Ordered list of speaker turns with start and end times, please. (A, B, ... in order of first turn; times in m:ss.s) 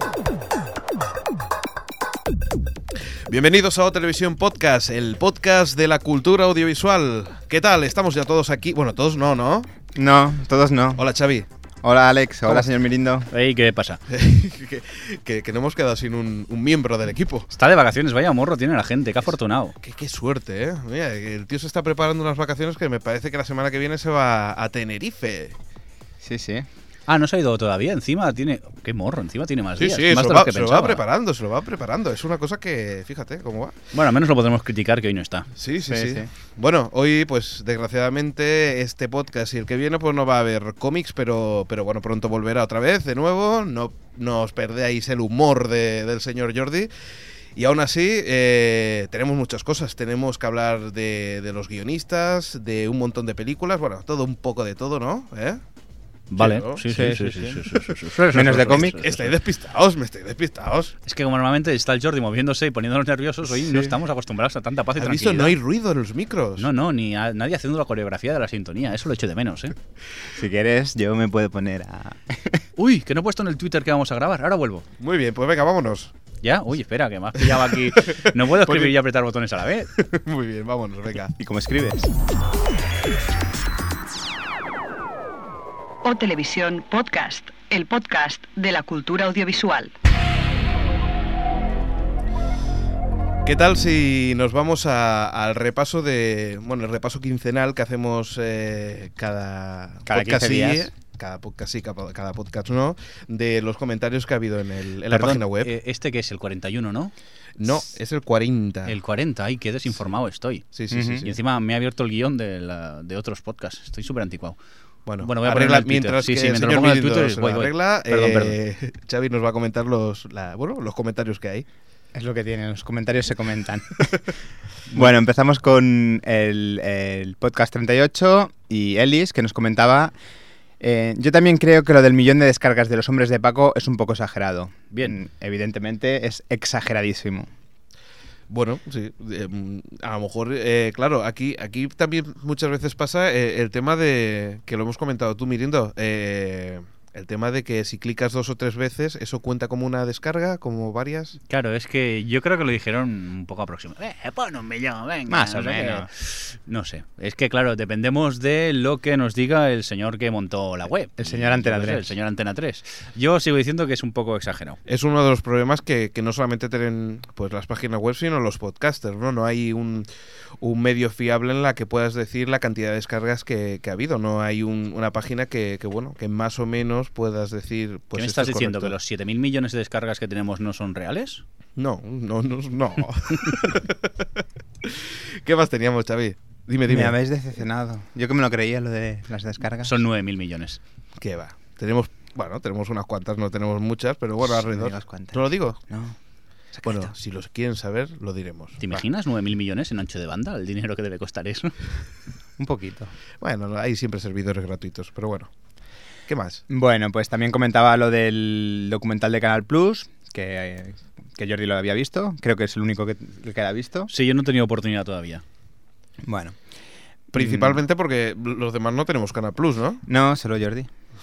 0:03.3-0:09.7 A
0:09.9-0:11.0 B
0:11.0-0:11.5 A
0:11.8-0:13.3 B
0:13.3-0:14.0 C
0:14.1-0:17.5 A
0:17.5-0:19.7 C
0:19.8-0:25.6 A
0:26.2-0:26.7 B
0:27.1-0:31.0 C
0:29.8-0:33.8 A
0:33.9-0:35.5 C
0:35.6-0:46.9 A
0:35.9-0:36.3 B
0:47.5-0:55.6 A
0:56.3-0:59.4 C
0:56.4-0:56.8 A
0:56.8-0:57.7 B
0:58.3-0:59.0 B
0:58.8-1:00.9 A
1:01.0-1:05.6 C
1:03.5-1:03.9 B
1:05.0-1:06.7 A
1:06.6-1:09.7 C
1:10.3-1:12.6 B
1:12.8-1:14.9 C
1:15.0-1:16.1 A
1:16.4-1:19.9 C
1:18.1-1:18.9 A
1:20.0-1:21.3 A
1:21.4-1:22.1 B
1:26.0-1:29.9 D
1:33.4-1:45.7 A
1:40.1-1:40.9 B
1:45.1-1:47.1 C
1:47.6-1:49.0 A
1:48.9-1:50.7 C
1:50.7-1:51.4 A
1:50.9-1:51.3 B
1:51.2-1:54.6 C
1:55.0-2:01.6 A
1:55.2-1:58.6 C
2:02.1-2:04.3 B
2:04.9-2:10.1 B
2:10.8-2:17.5 B
2:14.9-2:15.2 C
2:18.5-2:31.4 A
2:31.5-2:44.8 C
2:35.3-2:36.1 B
2:41.2-2:42.1 B
2:44.9-2:50.1 A
2:50.6-2:58.9 A
2:58.1-3:01.4 C
3:01.8-3:04.2 A
3:04.8-3:07.1 A
3:06.9-3:10.0 B
3:09.8-3:10.8 C
3:11.2-3:15.8 A
3:14.4-3:16.2 B
3:16.7-3:17.1 B
3:16.8-3:18.8 A
3:18.8-3:21.7 C
3:22.6-3:23.1 B
3:23.4-3:25.5 A
3:26.3-3:26.6 A
3:26.7-3:34.1 B
3:34.1-3:35.4 C
3:36.2-3:36.6 B
3:37.3-3:40.0 A
3:37.3-3:37.8 B
3:40.0-3:40.9 B